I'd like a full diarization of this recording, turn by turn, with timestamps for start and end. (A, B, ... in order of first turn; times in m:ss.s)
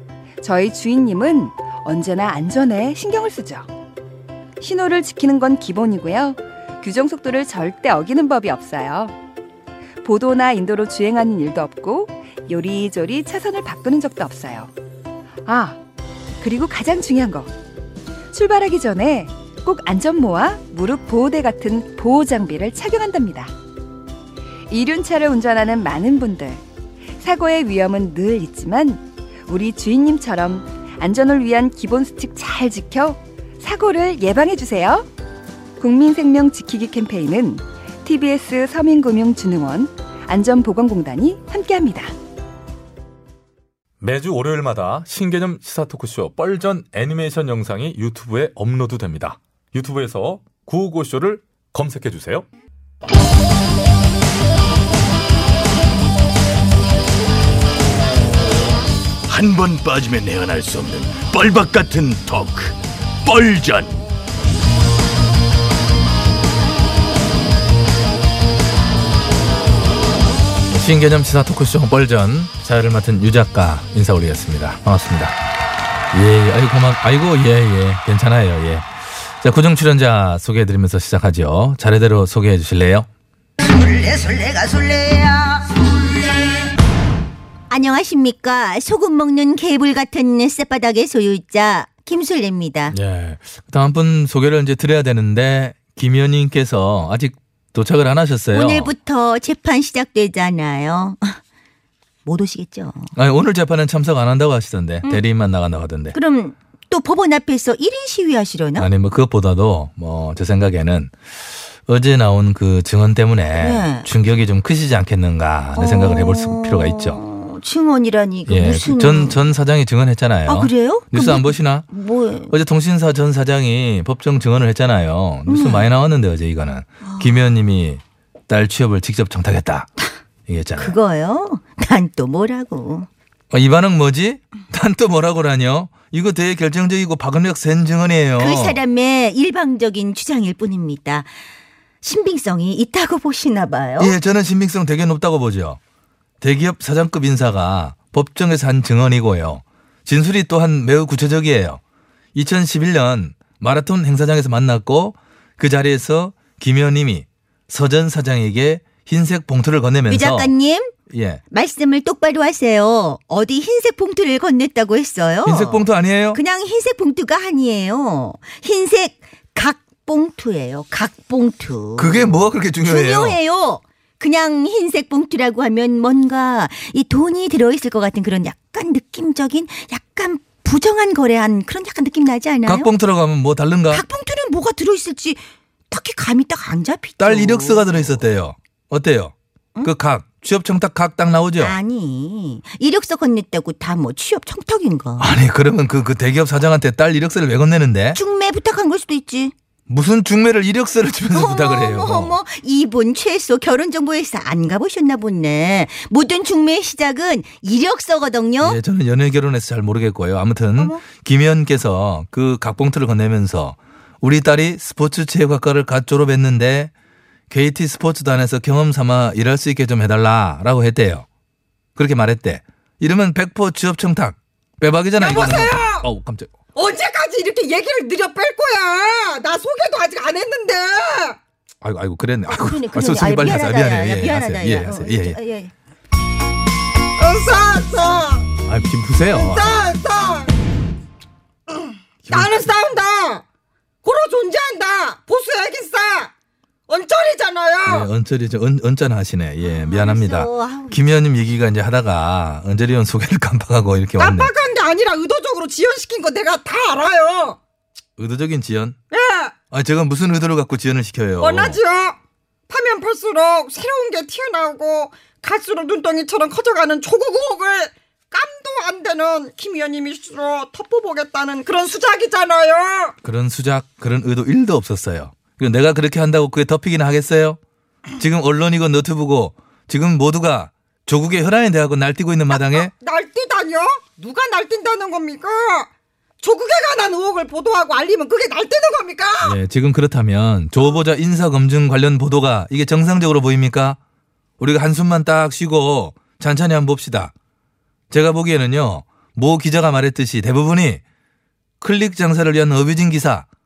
0:00.4-0:03.6 A
0:04.6-0:09.1 A
0:10.0-0:14.7 A
0:15.4-0:15.8 A
0:16.4-0:17.5 A
0:18.3-0:23.5 A
0:24.7-0:26.6 A
0:27.2-0:35.1 A
0:35.8-0:42.1 A
0:44.0-0:52.4 B
0:59.3-1:02.7 C
1:03.3-1:03.9 C
1:10.7-1:15.3 B
1:16.1-1:18.9 B
1:19.4-1:23.1 B
1:23.7-1:25.8 D
1:27.7-1:33.0 D
1:32.9-1:38.9 B
1:38.5-1:41.4 D
1:42.2-1:43.1 D
1:43.2-1:46.2 B
1:46.1-1:48.9 D
1:48.8-1:51.1 B
1:51.9-1:57.2 B
1:53.6-1:54.1 D
1:55.7-1:59.4 D
1:58.5-2:01.9 B
2:00.5-2:02.5 D
2:02.5-2:09.9 B
2:05.5-2:05.9 D
2:07.0-2:07.3 D
2:10.5-2:11.0 B
2:10.8-2:13.1 D
2:13.5-2:18.8 B
2:18.4-2:21.3 D
2:22.0-2:24.2 D
2:24.0-2:25.8 B
2:26.4-2:31.8 B
2:32.3-2:40.5 B
2:40.1-2:40.9 D
2:41.1-2:41.4 B
2:41.5-3:02.9 D
2:45.4-2:46.4 B
2:52.0-2:53.4 B
3:02.6-3:04.0 B
3:03.9-3:08.2 D
3:07.2-3:09.3 B
3:09.8-3:11.8 B
3:11.6-3:15.3 D
3:15.2-3:18.2 B
3:18.1-3:19.5 D
3:19.9-3:22.4 B
3:21.3-3:28.8 D
3:28.6-3:36.9 B
3:30.8-3:31.0 D
3:37.5-3:41.2 B
3:42.0-3:46.5 B
3:45.2-3:46.0 E
3:46.8-3:51.4 E
3:51.8-3:55.4 B
3:52.5-3:55.7 D
3:57.2-3:58.4 E
3:58.6-3:59.8 B
3:59.3-4:00.5 E
4:02.2-4:02.6 B
4:02.3-4:03.4 E
4:04.0-4:06.3 E
4:06.9-4:08.1 E
4:07.8-4:14.5 B
4:09.6-4:11.0 D
4:14.2-4:17.6 E
4:18.2-4:19.0 B
4:19.1-4:19.5 E
4:19.7-4:21.8 B
4:21.4-4:22.2 E
4:22.7-4:33.1 E
4:33.2-4:37.6 B
4:38.2-4:42.9 B
4:42.5-4:45.9 E
4:46.4-4:49.6 E
4:49.4-4:54.0 B
4:54.6-4:57.3 B
4:58.1-5:01.0 B
5:01.8-5:03.4 B